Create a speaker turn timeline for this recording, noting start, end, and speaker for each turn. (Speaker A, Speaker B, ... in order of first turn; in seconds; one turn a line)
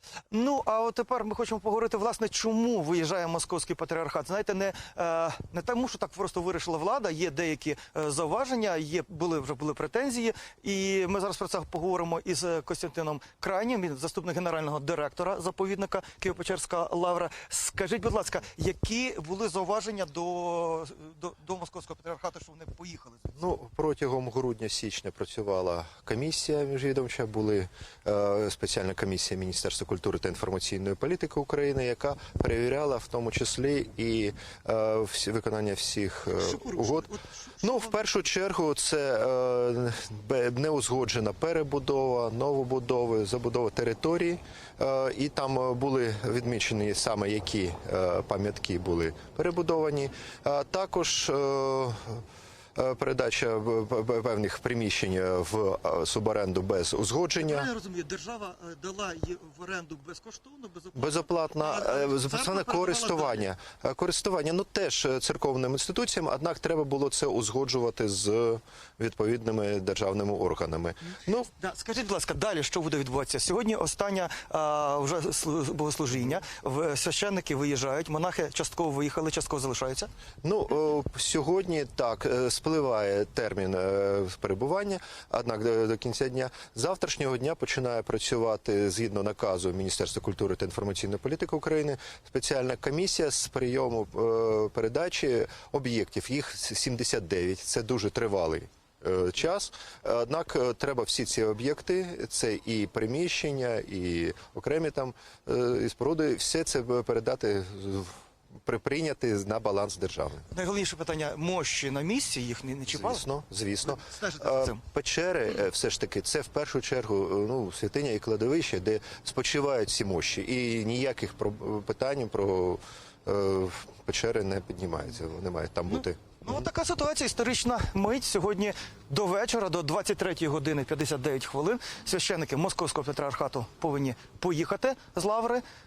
Speaker A: 0.3-23.5
Speaker B: 23.4-37.1
Speaker A: 36.3-38.0
Speaker B: 37.6-52.2
Speaker B: 52.7-57.7
Speaker A: 57.4-63.4
Speaker B: 60.9-71.5
Speaker A: 71.6-80.1
Speaker B: 80.4-108.1
Speaker B: 108.6-110.5
Speaker A: 110.5-113.2
Speaker B: 112.9-126.5
Speaker A: 113.8-114.8
Speaker A: 125.9-135.6